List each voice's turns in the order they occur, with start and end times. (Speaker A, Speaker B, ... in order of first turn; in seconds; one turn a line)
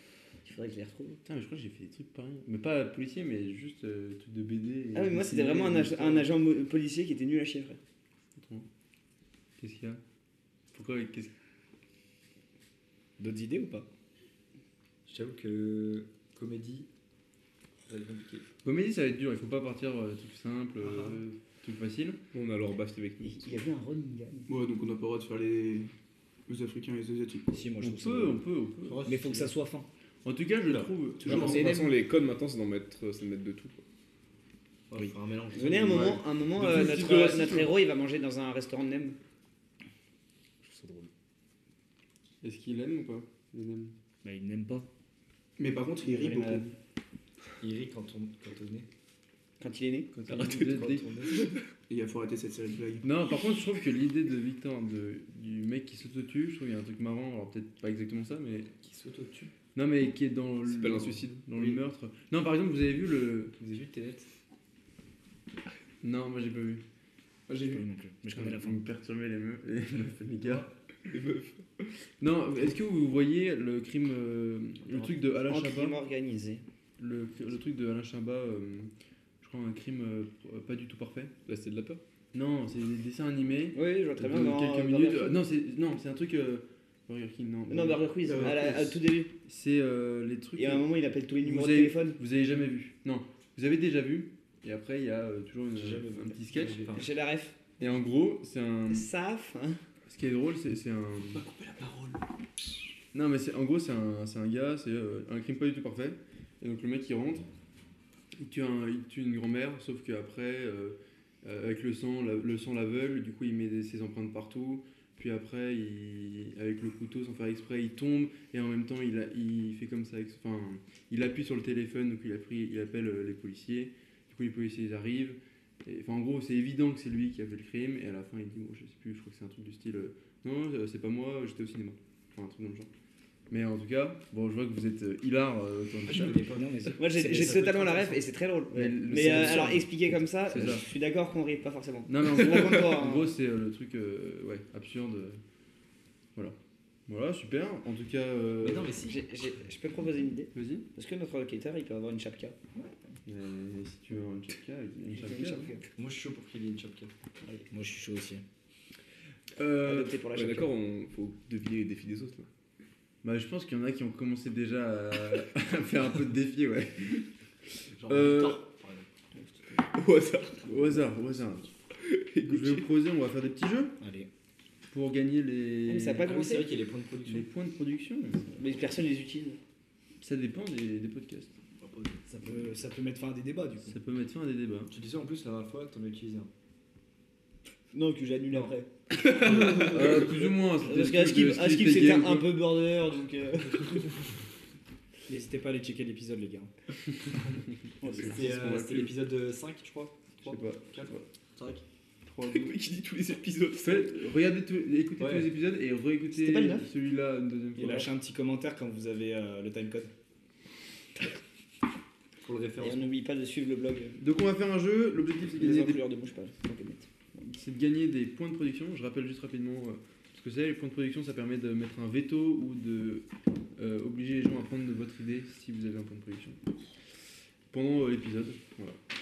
Speaker A: 0.4-1.2
Speaker B: 1.2-6.3
Speaker A: 4.9-7.8
Speaker B: 8.3-8.7
Speaker B: 9.6-10.0
Speaker B: 10.7-11.3
Speaker C: 13.2-13.9
Speaker D: 15.1-16.9
Speaker D: 17.8-18.4
Speaker B: 18.6-22.2
Speaker E: 22.3-23.6
Speaker A: 23.2-24.5
Speaker F: 24.5-25.9
Speaker F: 26.5-27.5
Speaker C: 27.5-28.4
Speaker B: 27.8-29.1
Speaker D: 28.9-29.5
Speaker C: 29.0-29.9
Speaker B: 30.2-31.7
Speaker F: 31.2-31.6
Speaker E: 31.3-33.8
Speaker A: 31.3-31.9
Speaker D: 34.9-36.2
Speaker A: 35.5-39.2
Speaker C: 35.6-36.0
Speaker B: 36.5-37.7
Speaker C: 40.6-41.1
Speaker B: 42.4-43.9
Speaker C: 44.2-44.9
Speaker F: 45.6-46.7
Speaker A: 46.0-46.7
Speaker D: 47.6-48.9
Speaker A: 49.6-50.2
Speaker B: 50.2-51.3
Speaker D: 50.2-51.5
Speaker F: 51.9-53.0
Speaker B: 53.0-58.7
Speaker D: 58.8-59.5
Speaker B: 59.7-63.5
Speaker E: 60.6-61.4
Speaker C: 63.6-64.2
Speaker B: 66.0-66.8
Speaker C: 67.5-68.8
Speaker B: 68.3-70.7
Speaker E: 71.0-71.7
Speaker B: 72.2-76.0
Speaker A: 74.8-76.6
Speaker B: 77.0-81.3
Speaker E: 81.5-82.0
Speaker B: 82.3-90.9
Speaker A: 83.7-85.5
Speaker A: 87.7-89.3
Speaker F: 88.2-88.8
Speaker A: 90.5-92.2
Speaker B: 91.4-97.0
Speaker D: 95.8-97.1
Speaker A: 96.9-97.7
Speaker B: 97.8-99.1
Speaker A: 98.9-99.8
Speaker B: 100.0-101.4
Speaker F: 101.3-102.2
Speaker B: 103.1-107.5
Speaker B: 108.4-132.9
Speaker B: 133.5-136.4
Speaker D: 136.0-137.7
Speaker C: 136.3-138.2
Speaker A: 137.0-143.3
Speaker B: 138.7-139.9
Speaker C: 139.1-139.7
Speaker B: 140.5-140.9
Speaker B: 142.1-145.4
Speaker B: 147.1-148.9
Speaker D: 148.6-149.2
Speaker A: 149.0-152.6
Speaker B: 150.5-150.8
Speaker B: 153.2-155.7
Speaker A: 155.1-155.9
Speaker D: 155.9-157.1
Speaker C: 157.7-158.4
Speaker E: 159.6-162.5
Speaker A: 159.8-160.7
Speaker B: 163.2-167.3
Speaker D: 168.0-169.1
Speaker B: 168.0-168.7
Speaker A: 169.5-169.7
Speaker E: 169.9-170.7
Speaker B: 170.6-171.7
Speaker E: 171.9-172.9
Speaker B: 172.4-173.9
Speaker C: 174.0-174.3
Speaker B: 174.9-176.2
Speaker A: 175.8-176.7
Speaker D: 176.2-177.5
Speaker B: 177.2-178.4
Speaker A: 178.5-179.6
Speaker B: 180.2-181.5
Speaker C: 181.8-184.0
Speaker B: 183.8-184.9
Speaker D: 184.9-186.5
Speaker A: 187.9-194.1
Speaker B: 189.4-192.5
Speaker C: 195.3-196.7
Speaker A: 198.0-198.5
Speaker B: 198.1-199.1
Speaker D: 198.2-201.8
Speaker B: 200.4-201.3
Speaker B: 202.2-202.7
Speaker E: 202.5-204.1
Speaker B: 203.8-208.1
Speaker D: 205.2-205.5
Speaker A: 206.3-206.9
Speaker C: 207.8-210.1
Speaker D: 212.4-213.1
Speaker A: 212.8-214.2
Speaker B: 214.2-216.1
Speaker A: 215.5-217.1
Speaker B: 217.3-223.2
Speaker B: 223.8-226.6
Speaker B: 227.7-229.0